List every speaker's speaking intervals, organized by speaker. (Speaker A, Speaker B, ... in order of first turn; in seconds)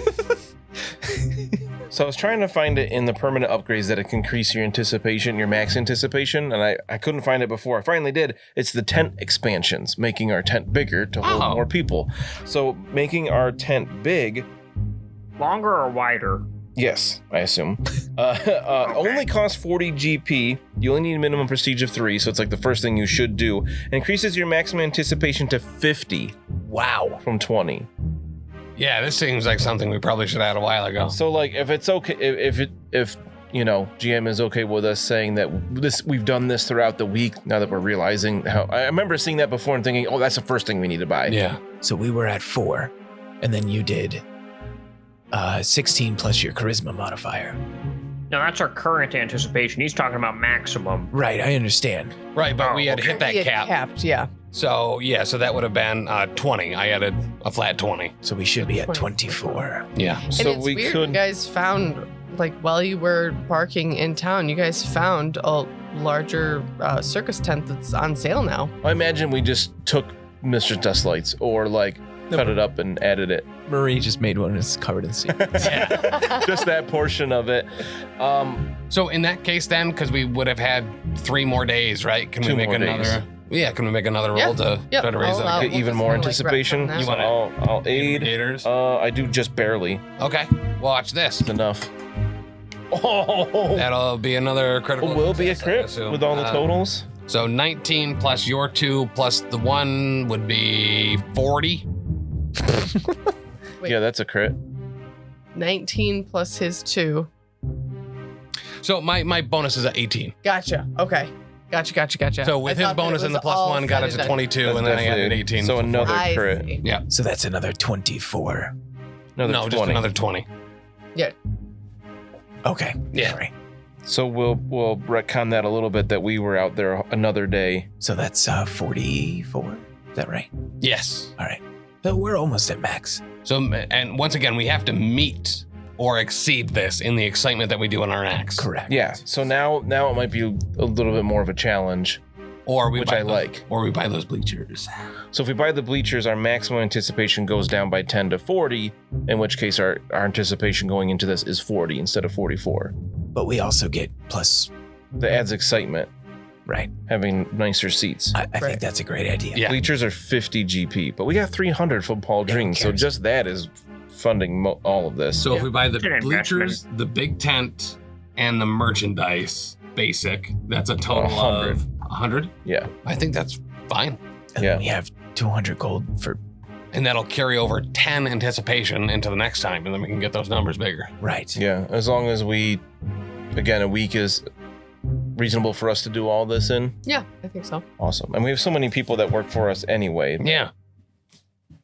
Speaker A: 1.9-14.5, 16.8-26.4, 27.2-27.9, 31.1-41.4, 60.3-61.2, 68.8-73.5, 75.3-78.8, 82.4-83.2, 85.5-90.1, 91.4-91.9, 92.9-93.9, 95.0-97.1, 103.8-104.6, 114.6-116.8, 119.4-120.1, 124.0-127.9, 138.9-142.2, 142.9-143.6, 145.3-152.9, 155.2-156.1, 157.1-158.4, 159.6-165.5, 171.1-171.8, 172.6-172.9, 174.6-174.8, 181.6-182.8, 183.5-184.4, 185.3-187.0, 188.0-190.6
Speaker B: 11.2-11.7, 28.8-31.1, 41.3-41.6, 52.3-53.7, 54.5-58.1, 59.9-60.3, 75.6-76.2, 78.9-85.8, 86.9-88.7, 90.2-91.5, 93.7-96.7, 97.2-101.9, 108.8-110.3, 112.4-116.2, 116.8-117.1, 119.4-120.5, 123.1-123.4, 130.8-131.3, 133.4-138.7, 142.7-144.9, 159.6-159.8, 165.4-172.5, 173.0-174.2, 176.9-181.1, 190.4-190.7
Speaker C: 15.4-16.4, 48.3-51.1, 52.6-53.0, 165.9-166.8
Speaker D: 26.6-27.2, 41.8-44.2, 45.3-47.6, 51.1-52.2, 58.2-59.9, 72.3-72.6, 73.7-76.0, 117.1-118.7, 122.6-123.5, 128.0-130.5, 131.4-133.3, 138.6-139.2, 153.3-154.7, 156.7-156.9, 158.3-159.7, 162.4-163.1, 174.6-176.4, 181.2-181.6
Speaker E: 53.0-54.3, 58.6-59.6, 60.3-68.7, 76.1-76.4, 84.3-87.1, 105.5-107.3, 110.4-114.4, 116.0-116.8, 187.1-187.8